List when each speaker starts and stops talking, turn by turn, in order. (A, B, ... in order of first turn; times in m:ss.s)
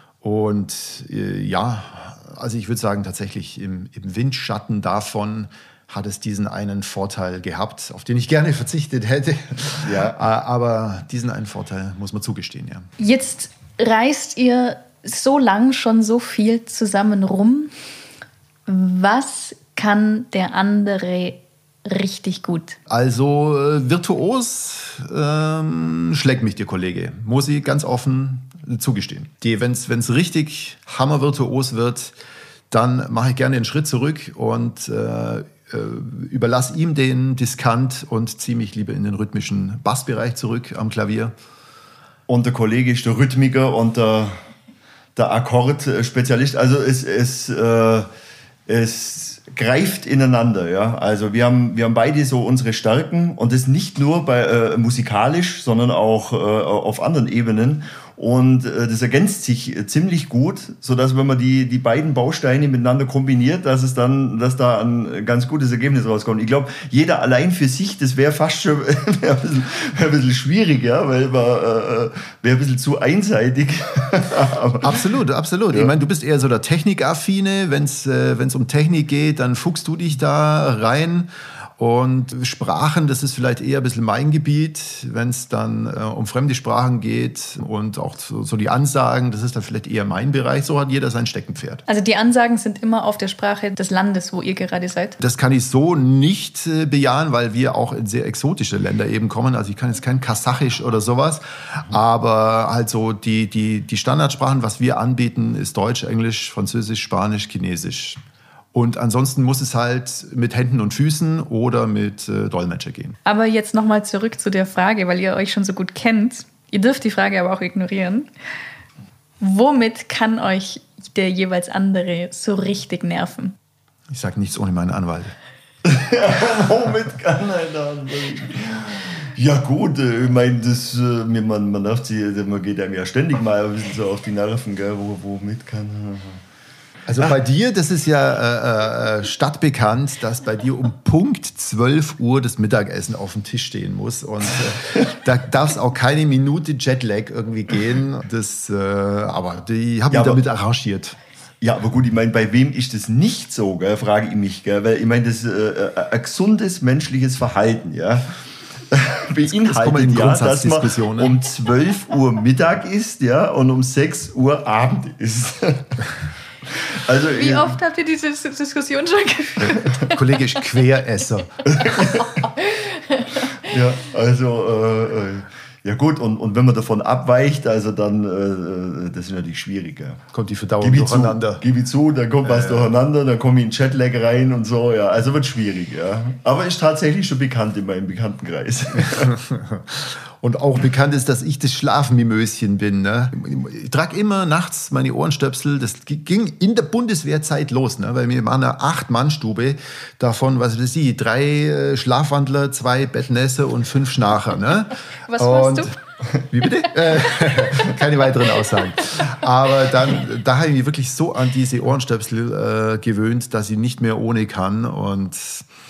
0:00.2-0:12.9 A
0:09.8-0:10.2 B
0:13.0-0:17.7 C
0:18.7-0:22.8 C
0:22.9-0:32.1 A
0:32.7-0:41.3 A
0:42.3-0:44.4 B
0:45.2-0:48.1 B
0:48.7-1:15.0 B
1:14.8-1:31.8 A
1:31.9-1:35.2 C
1:35.2-1:48.2 A
1:48.7-1:53.2 A
1:53.3-1:58.3 C
1:59.4-2:03.6 C
2:04.1-2:05.3 A
2:05.8-2:16.4 B
2:17.1-2:31.2 A
2:30.1-2:30.4 B
2:31.6-2:38.3 B
2:38.9-2:46.1 B
2:39.4-2:41.4 A
2:46.7-2:47.8 B
2:47.3-2:50.1 C
2:49.6-2:51.7 A
2:51.6-2:52.4 B
2:52.2-2:53.6 C
2:53.5-3:00.2 B
3:00.3-3:01.6 A
3:00.8-3:09.3 B
3:02.4-3:02.9 A
3:08.9-3:35.6 A
3:25.3-3:25.9 C